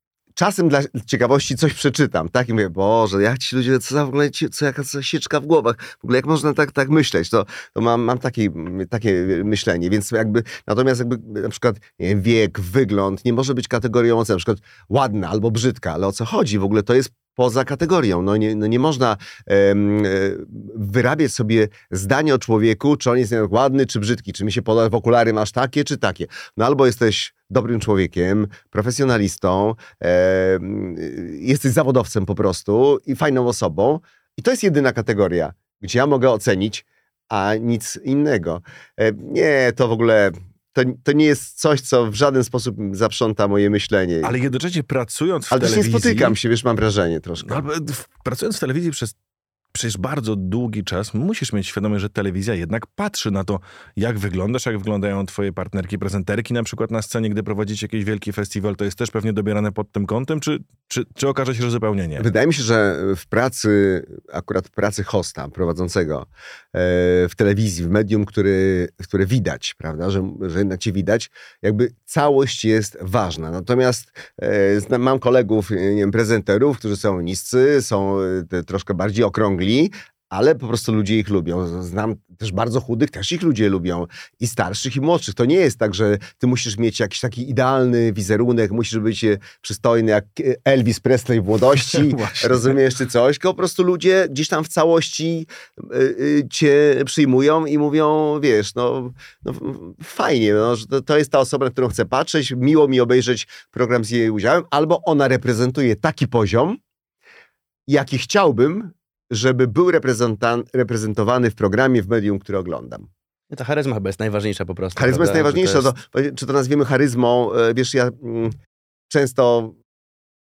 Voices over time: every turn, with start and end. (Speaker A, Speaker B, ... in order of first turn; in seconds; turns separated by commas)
Speaker A: 0.3-44.3, Speaker B: 44.2-46.4, Speaker A: 45.5-47.6, Speaker B: 47.4-49.1, Speaker B: 49.7-62.3, Speaker A: 62.2-106.8, Speaker B: 91.8-92.8, Speaker A: 107.9-113.1, Speaker C: 113.5-115.9, Speaker A: 115.0-118.6, Speaker A: 119.1-119.8